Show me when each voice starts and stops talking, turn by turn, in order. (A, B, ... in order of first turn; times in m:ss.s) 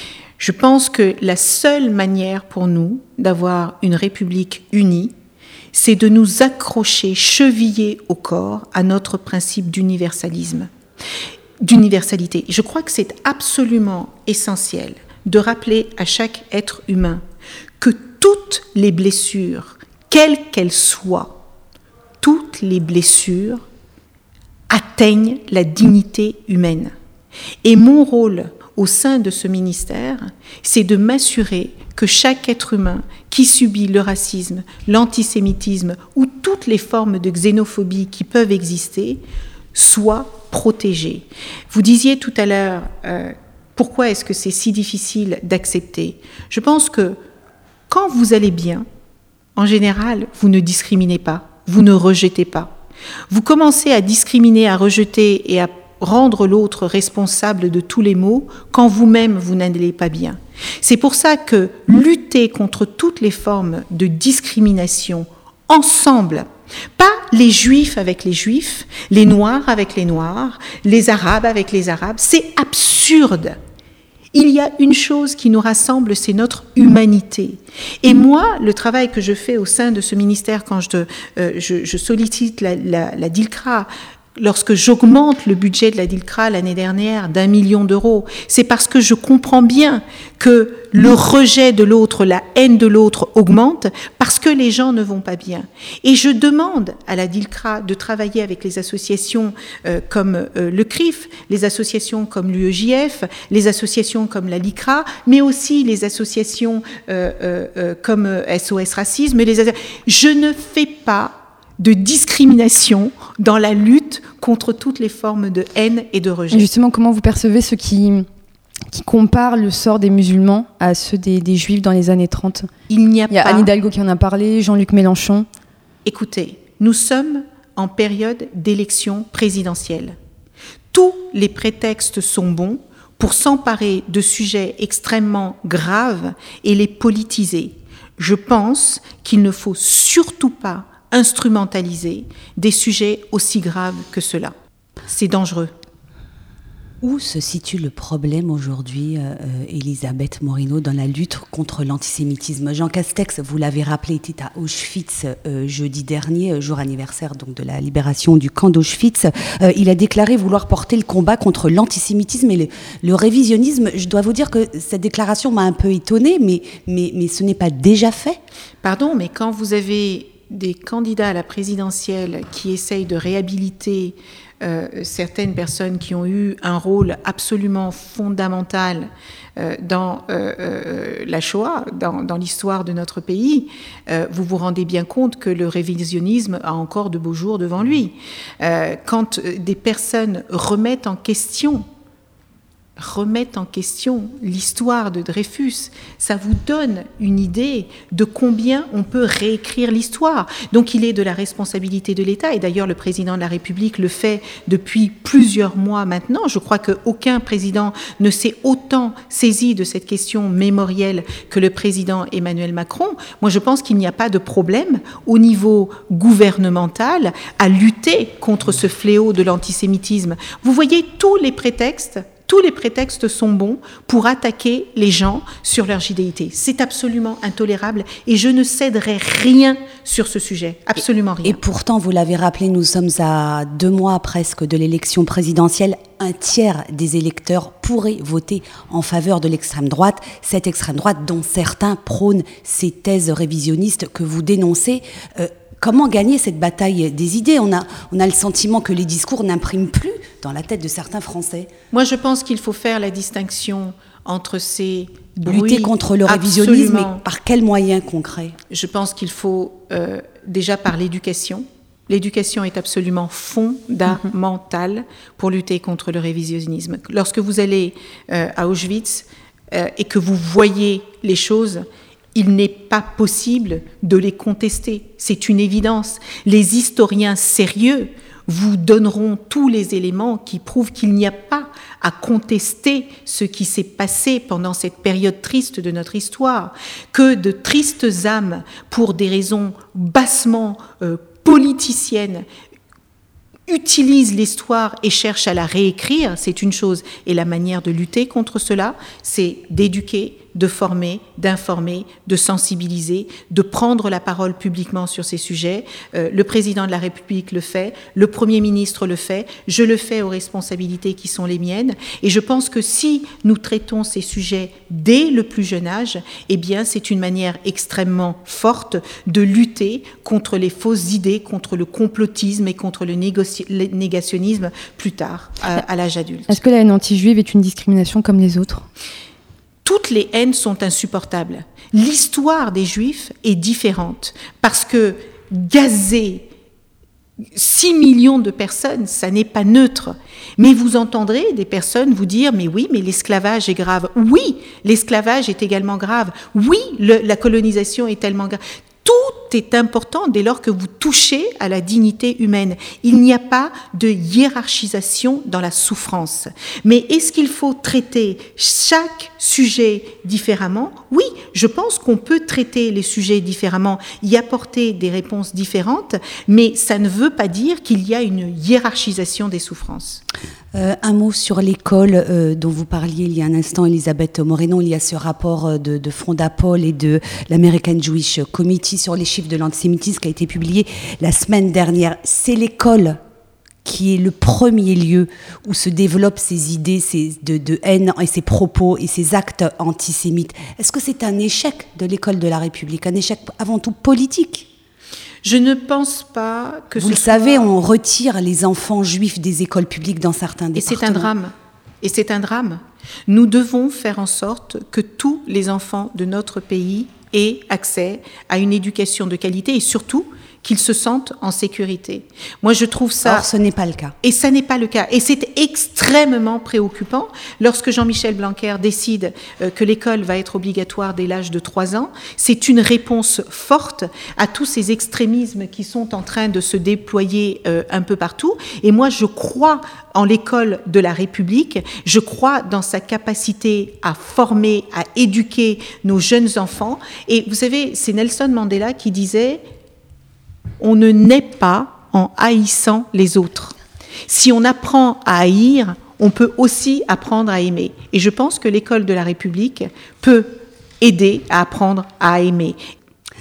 0:00.4-0:05.1 A
0:05.7-0:10.7 A
0:11.6-0:17.2 A
0:17.8-0:21.4 A
0:22.2-0:23.6 A
0:24.7-0:26.9 A
0:27.6-0:39.2 A
0:39.7-0:47.2 A
0:47.9-0:48.8 A
0:49.6-0:52.7 A
0:53.3-1:13.6 A
1:14.3-1:56.7 A
1:56.5-1:58.3 B
1:58.9-2:02.7 B
2:02.9-2:03.7 A
2:03.3-2:05.5 B
2:06.0-2:10.2 A
2:10.9-2:24.5 A
2:25.1-2:25.7 A
2:27.0-2:48.4 C
2:48.8-3:11.8 A
3:13.0-3:51.6 A
3:51.4-4:11.7 C
4:11.9-4:17.2 A
4:15.4-4:18.6 C
4:18.7-4:31.8 A
4:32.4-4:52.4 A
4:53.7-5:26.6 A
5:26.5-5:28.9 B
5:29.8-5:36.5 A
5:37.6-6:10.2 A
6:10.7-6:23.2 C
6:23.8-6:34.7 C
6:35.4-6:37.7 A
6:37.0-6:41.3 C
6:40.8-6:53.5 A
6:53.2-6:54.1 C
6:54.2-7:19.6 A
7:20.8-7:23.8 A
7:24.3-7:32.8 A